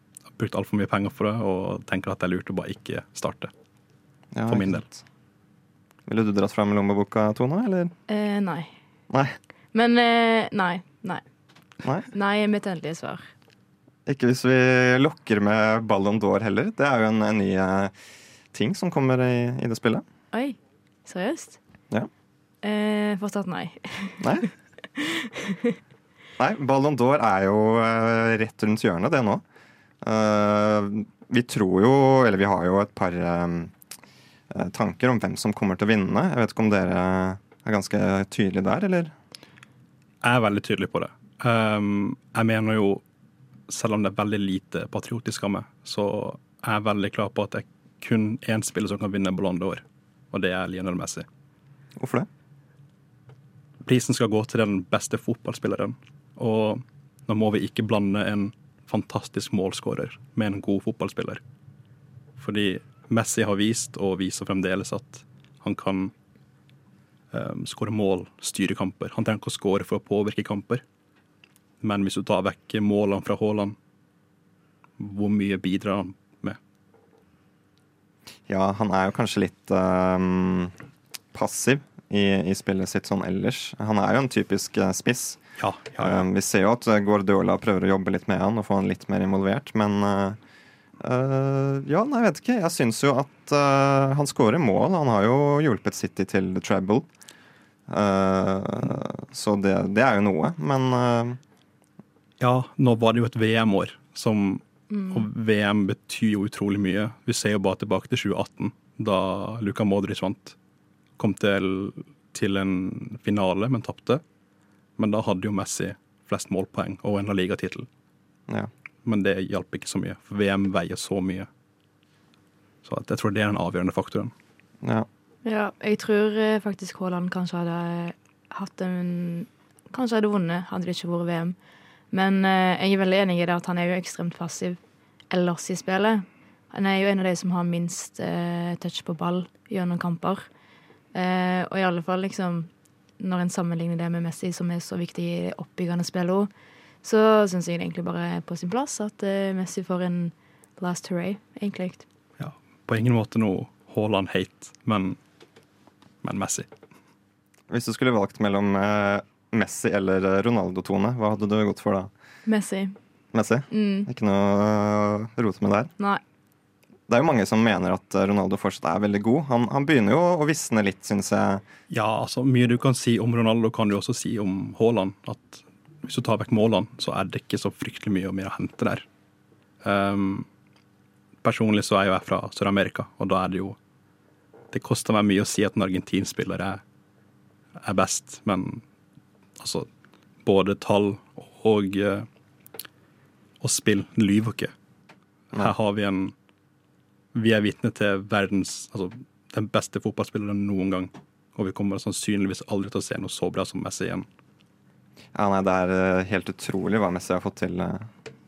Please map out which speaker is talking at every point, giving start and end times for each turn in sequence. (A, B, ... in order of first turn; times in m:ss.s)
0:00.4-0:03.5 A
0:04.3-0:05.0 B
0:04.5-0:04.8 A
0:06.1-0:07.9 B
0:08.1-0:08.7 C
0:09.1-0:09.4 B
0:09.7-0:11.2 C
0:12.1-0:13.2 C
0:14.1-0:17.9 B
0:18.5-0:20.0 B
0:20.3-0:21.6 C
0:22.6-0:24.3 C
0:24.2-0:24.5 B
0:25.0-0:25.8 C
0:26.4-0:29.4 B
0:30.0-0:33.7 B
0:34.5-0:39.1 B
0:40.2-0:43.0 A
0:43.7-0:51.3 A
0:52.0-0:52.3 B
0:53.8-1:01.4 A
1:02.4-1:06.1 A
1:07.3-1:10.8 A
1:11.8-1:13.8 A
1:15.0-1:16.6 A
1:18.5-1:20.7 B
1:21.3-1:25.4 B
1:25.6-1:26.2 A
1:26.0-1:30.4 B
1:31.0-1:37.1 B
1:37.9-1:41.4 B
1:42.4-1:50.6 A
1:44.9-1:45.3 C
1:51.2-1:54.2 A
1:55.0-1:57.9 A
1:59.0-2:01.5 A
2:02.8-2:04.3 A
2:04.8-2:05.1 B
2:05.4-2:11.6 C
2:12.1-2:14.8 C
2:15.3-2:20.5 C
2:21.1-2:26.5 C
2:27.0-2:32.0 C
2:32.4-2:35.2 A
2:36.2-2:36.7 A
2:37.7-2:42.1 B
2:42.5-2:43.0 C
2:43.3-2:45.9 B
2:43.7-2:44.1 C
2:47.1-2:51.6 B
2:51.9-2:59.0 A
2:59.8-3:00.5 A
3:01.4-3:03.8 A
3:04.7-3:06.8 A
3:07.8-3:08.8 A
3:09.6-3:09.9 A
3:10.4-3:12.3 A
3:13.6-3:14.7 A
3:15.5-3:16.3 A
3:17.3-3:24.3 A
3:25.3-3:28.1 B